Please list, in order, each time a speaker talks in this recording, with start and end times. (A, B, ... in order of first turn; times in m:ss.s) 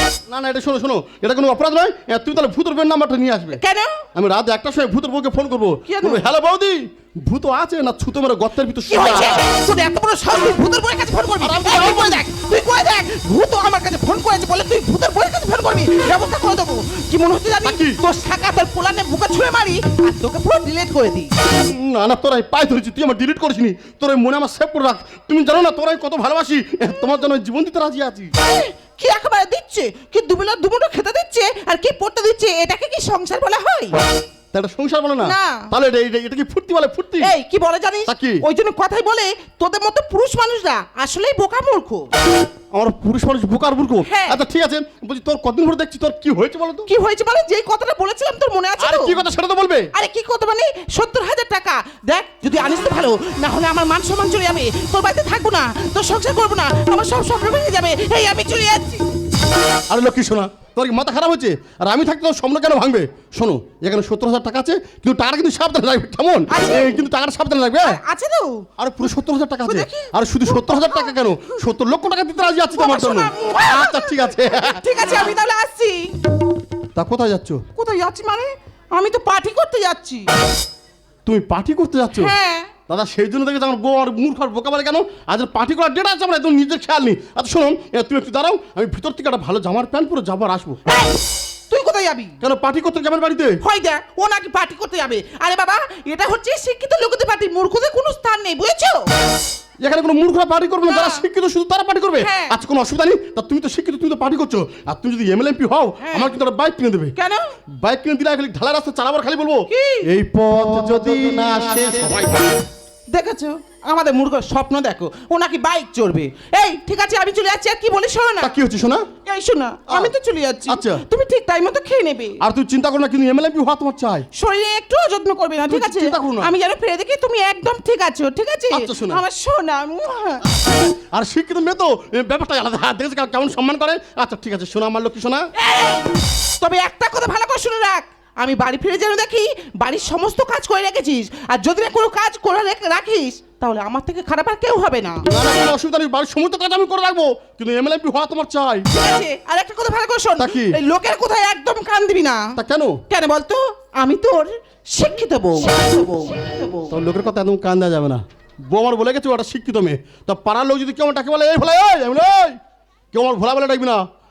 0:00.3-0:03.6 A
0:03.5-0:04.0 B
0:04.1-0:09.4 A
0:05.8-0:06.2 B
0:08.9-0:21.3 B
0:11.4-0:12.2 A
0:17.6-0:18.0 A
0:21.4-0:28.3 A
0:28.4-0:34.0 B
0:34.5-0:37.3 A
0:35.2-0:35.7 B
0:37.2-0:42.1 B
0:38.1-0:38.4 A
0:42.7-0:46.9 A
0:44.0-0:44.4 B
0:46.8-0:49.2 B
0:48.8-0:49.9 A
0:49.9-0:59.0 B
0:59.9-1:08.0 A
1:06.5-1:07.0 B
1:07.8-1:08.7 B
1:08.8-1:14.8 A
1:09.6-1:11.1 B
1:12.7-1:16.1 B
1:17.0-1:17.6 A
1:17.8-1:20.3 B
1:21.2-1:22.3 A
1:22.1-1:22.7 B
1:22.9-1:30.8 A
1:30.9-1:31.2 B
1:31.7-1:32.4 B
1:32.4-1:33.6 A
1:33.6-1:39.1 B
1:39.8-1:47.1 A
1:40.8-1:41.2 B
1:42.2-1:42.6 B
1:46.0-1:46.3 B
1:47.2-1:47.4 B
1:47.8-1:52.5 A
1:49.7-1:50.0 B
1:53.1-1:58.5 B
1:58.4-1:59.1 A
1:59.2-2:02.4 B
2:00.7-2:01.0 A
2:02.4-2:04.2 A
2:04.3-2:10.4 B
2:05.7-2:06.5 A
2:08.7-2:09.2 A
2:11.0-2:15.5 A
2:15.6-2:25.3 B
2:25.3-2:28.9 A
2:28.9-2:32.5 B
2:30.4-2:30.8 A
2:32.6-2:33.0 A
2:33.1-2:36.9 B
2:36.9-2:42.6 A
2:43.1-2:44.0 A